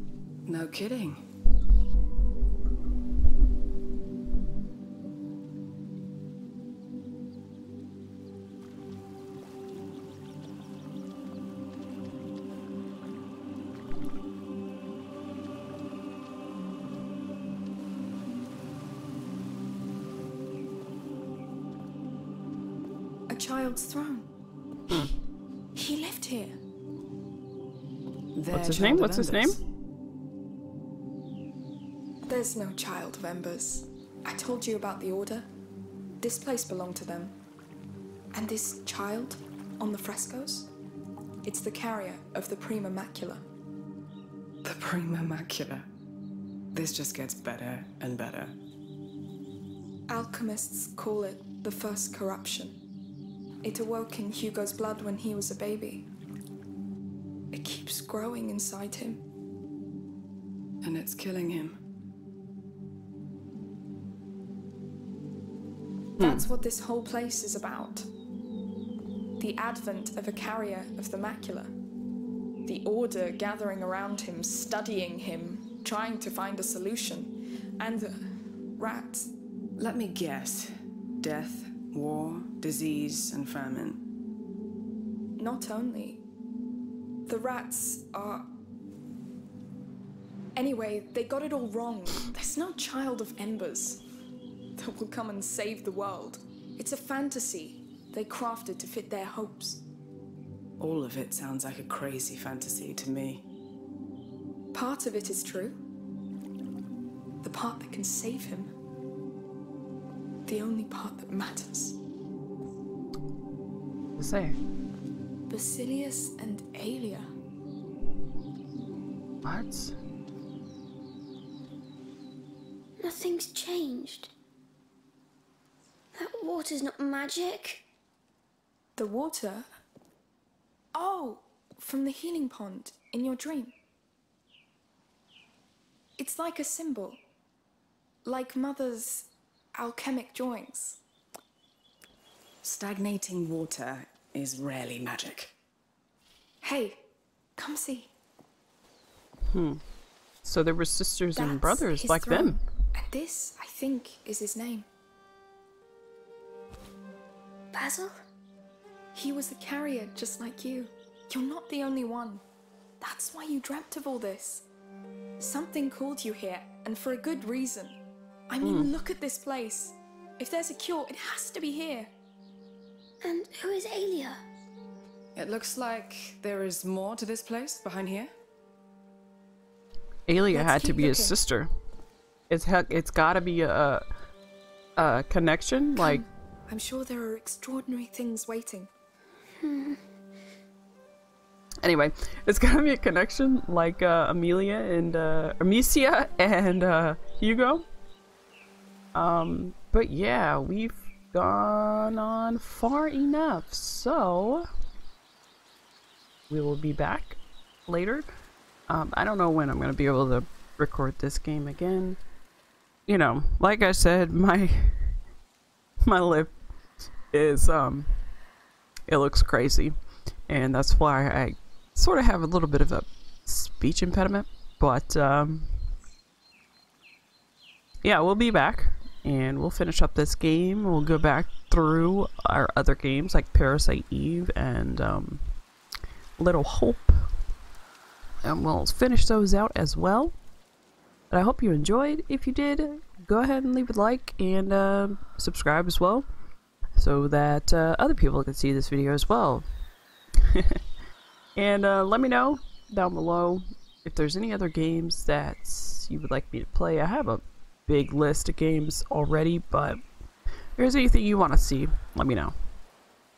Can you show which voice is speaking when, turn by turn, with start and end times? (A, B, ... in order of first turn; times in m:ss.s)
0:00.5-0:01.2 A
0:23.3-0:24.2 B
0:25.7-0:26.6 B
0:28.3-0:29.6 A
0:28.5-0:29.6 C
0:32.3-0:35.5 B
0:36.2-0:37.3 B
0:38.3-0:40.7 B
0:41.4-0:43.4 B
0:44.6-0:45.9 A
0:46.7-0:48.5 A
0:50.1-0:52.7 B
0:53.6-0:56.0 B
0:57.5-0:59.2 B
1:00.8-1:01.8 A
1:06.2-1:08.1 B
1:06.2-1:06.4 C
1:09.4-1:11.7 B
1:12.6-1:18.2 B
1:18.8-1:19.3 B
1:19.8-1:24.0 A
1:25.4-1:26.2 B
1:27.3-1:28.4 B
1:30.6-1:34.0 B
1:34.8-1:39.8 B
1:40.8-1:43.4 A
1:44.7-1:45.8 B
1:47.4-1:48.7 B
1:50.4-1:52.0 B
1:54.2-1:54.6 C
1:55.5-1:57.3 B
1:59.4-1:59.9 C
2:03.0-2:04.3 D
2:06.1-2:07.8 D
2:09.0-2:09.7 B
2:10.9-2:13.7 B
2:16.2-2:17.2 B
2:18.2-2:21.0 B
2:22.6-2:25.5 A
2:26.6-2:27.0 B
2:27.6-2:28.1 B
2:29.5-2:29.8 C
2:30.4-2:32.6 C
2:31.4-2:34.8 B
2:37.7-2:38.2 D
2:39.1-2:42.4 B
2:43.0-2:44.6 B
2:45.4-2:48.0 B
2:48.5-2:52.1 B
2:48.6-2:48.9 C
2:53.2-2:54.4 D
2:55.3-2:58.3 A
3:00.3-3:01.7 C
3:00.5-3:01.3 B
3:02.5-3:04.0 C
3:05.0-3:06.2 C
3:06.0-3:08.9 B
3:09.6-3:10.0 D
3:11.8-3:17.9 C
3:19.1-3:24.7 C
3:26.5-3:28.3 C
3:28.9-3:32.2 C
3:33.1-3:35.2 C
3:36.0-3:36.5 C
3:37.3-3:38.1 C
3:39.1-3:39.9 C
3:40.5-3:45.8 C
3:48.0-3:55.4 C
3:56.4-3:57.3 C
3:58.4-4:00.3 C
4:01.3-4:06.2 C
4:07.0-4:09.7 C
4:10.5-4:10.8 C
4:11.6-4:20.0 C
4:20.8-4:22.5 C